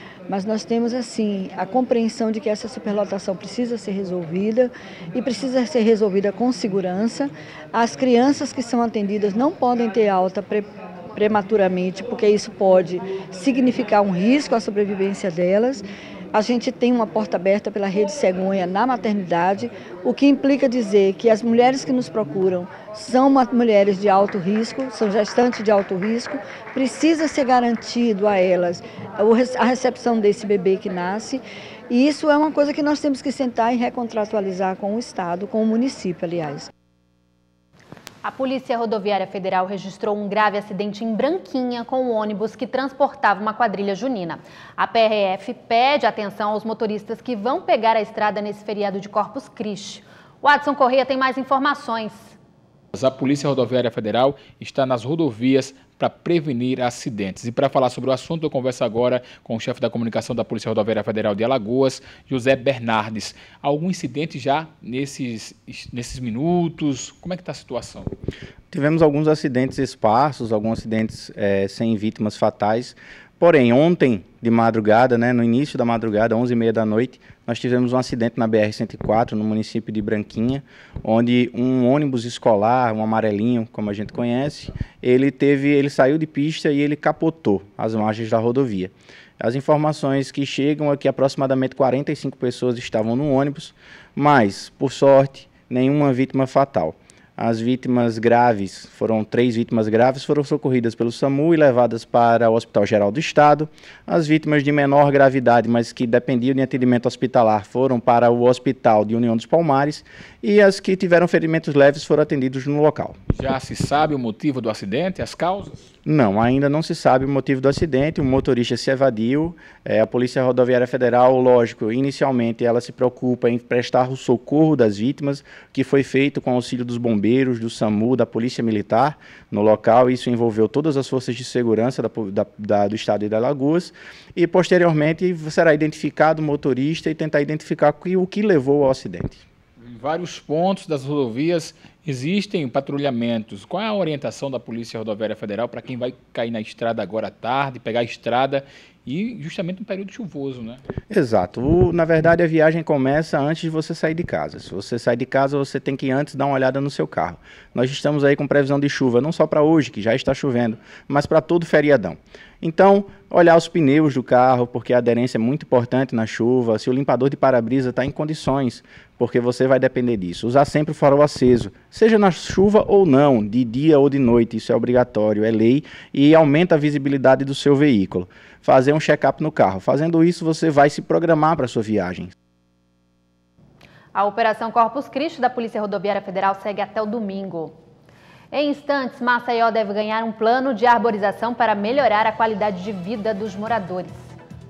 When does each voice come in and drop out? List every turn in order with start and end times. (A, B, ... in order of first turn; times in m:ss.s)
0:00.3-0:36.7 A
0:38.2-0:52.4 B
0:53.0-1:08.1 C
1:08.7-1:53.2 D
1:53.3-1:55.9 C
1:56.1-2:19.4 D
2:19.8-2:30.8 C
2:31.1-3:02.3 D
3:04.1-3:07.7 B
3:08.5-3:14.3 B